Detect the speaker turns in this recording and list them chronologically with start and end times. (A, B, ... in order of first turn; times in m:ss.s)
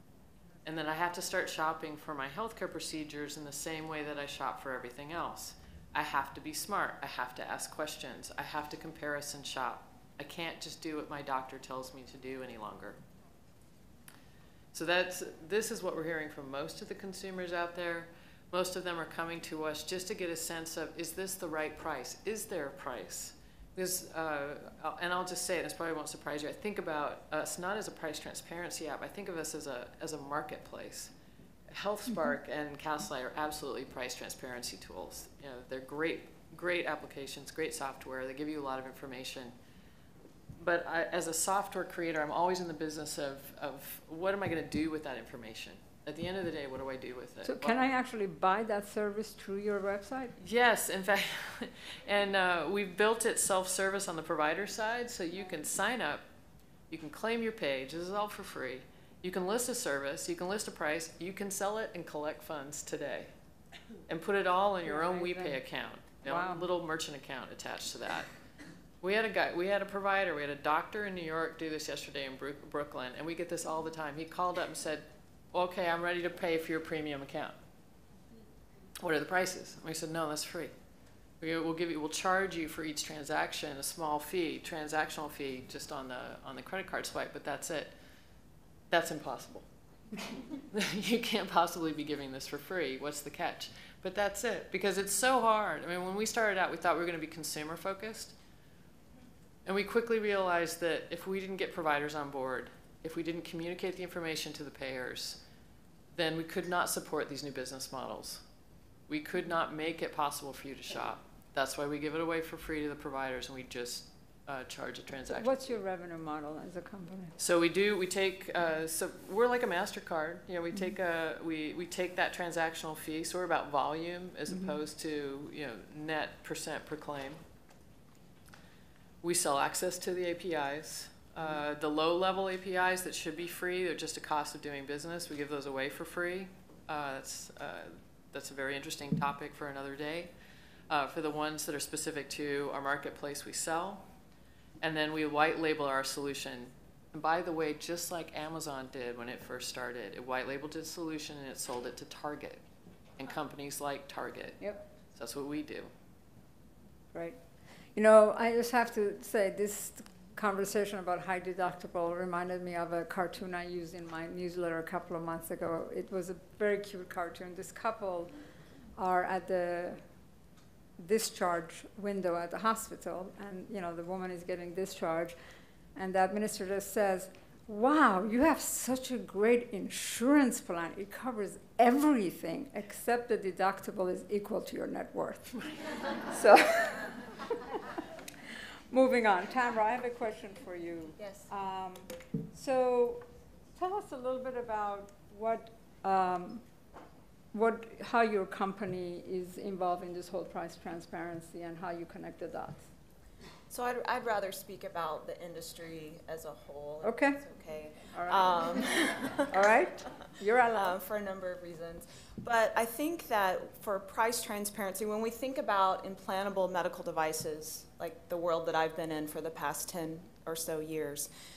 0:00.6-0:13.0 A
0:14.7-0:31.1 A
0:31.7-0:39.5 A
0:40.6-0:47.8 A
0:47.5-0:50.3 B
0:50.4-0:56.2 A
0:56.9-1:03.3 A
1:04.1-1:08.3 A
1:04.8-1:05.6 B
1:06.2-1:06.6 B
1:09.0-1:17.6 A
1:19.0-1:20.7 A
1:21.4-1:27.9 A
1:28.9-1:29.6 A
1:30.7-1:38.3 A
1:39.7-1:45.4 A
1:46.1-1:48.4 A
1:49.1-1:55.6 A
1:55.3-1:57.4 B
1:57.4-2:07.4 A
2:09.2-2:20.3 A
2:20.9-2:24.0 A
2:24.8-2:32.6 A
2:33.2-2:34.6 A
2:35.2-2:35.9 A
2:38.0-2:48.3 B
2:49.0-2:50.0 B
2:51.0-2:55.4 B
2:56.0-3:05.6 B
3:06.2-3:07.2 B
3:08.9-3:13.2 B
3:13.8-3:16.6 B
3:17.5-3:22.8 B
3:23.7-3:29.7 C
3:27.0-3:27.4 B
3:28.1-3:28.9 B
3:29.5-3:31.0 B
3:30.7-3:41.3 C